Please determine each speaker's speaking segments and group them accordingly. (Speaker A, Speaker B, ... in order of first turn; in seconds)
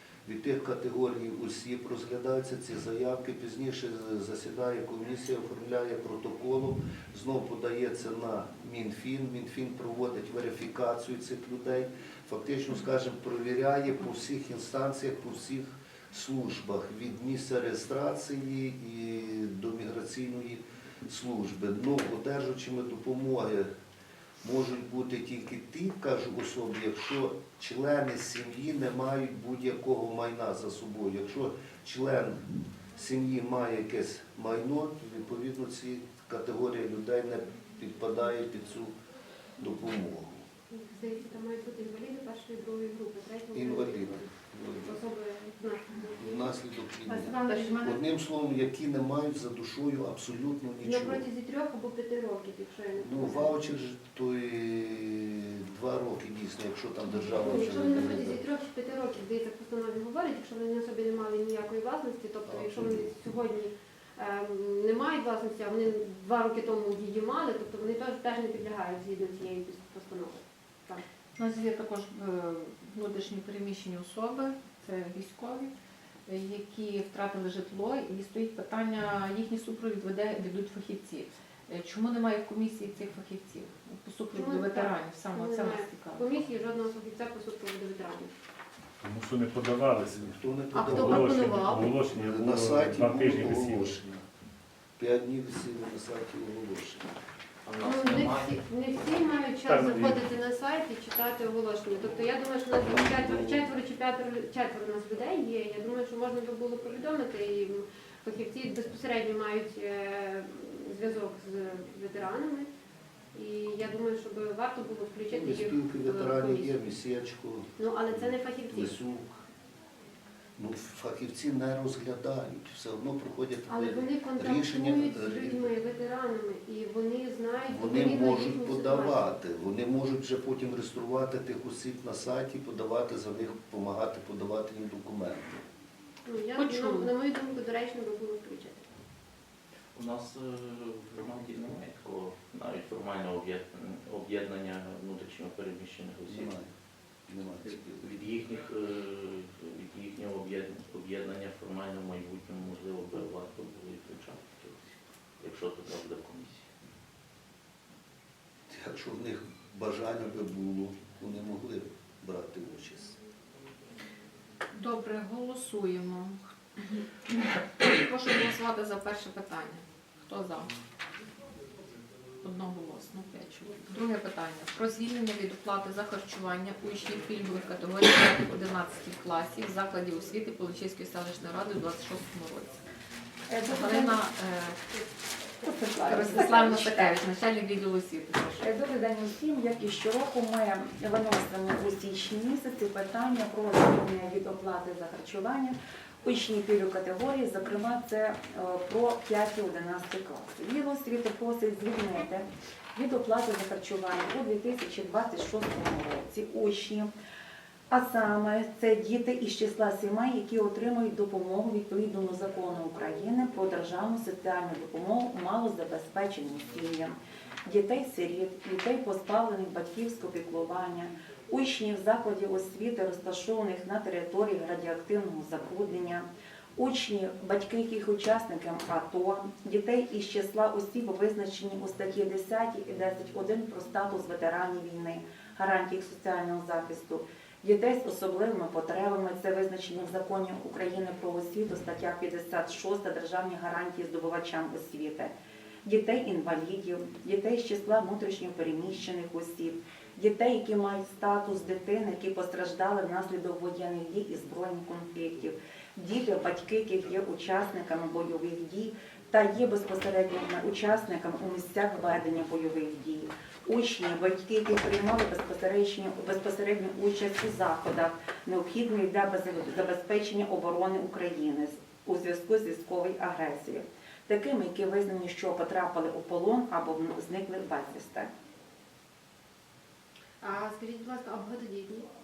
Speaker A: 0.2-23.7, 24.4-32.4, 32.9-38.9, 39.6-40.5, 43.5-45.0, 46.2-51.2, 53.0-58.4, 62.4-63.1, 90.0-94.1, 95.0-97.1, 102.8-103.7, 115.3-119.4, 120.6-125.7, 127.7-135.6, 146.3-146.7, 147.3-148.1, 158.7-163.2
Speaker B: 40.7-48.0, 50.8-53.6, 57.1-71.0, 84.3-88.3, 90.7-92.0, 97.8-112.7, 113.3-116.9, 117.8-119.0, 123.7-129.3, 136.2-138.9, 280.4-282.1
Speaker C: 47.4-47.9, 71.4-75.7, 76.3-86.3, 136.6-137.1, 164.7-167.0, 167.8-170.7, 172.4-182.8, 183.7-184.8, 186.1-188.7
Speaker D: 89.0-94.2, 99.6-100.2
Speaker E: 97.6-98.6, 139.9-146.5, 147.6-156.7
Speaker F: 183.5-184.2, 185.6-187.1, 188.6-207.1, 207.9-245.3, 245.8-278.3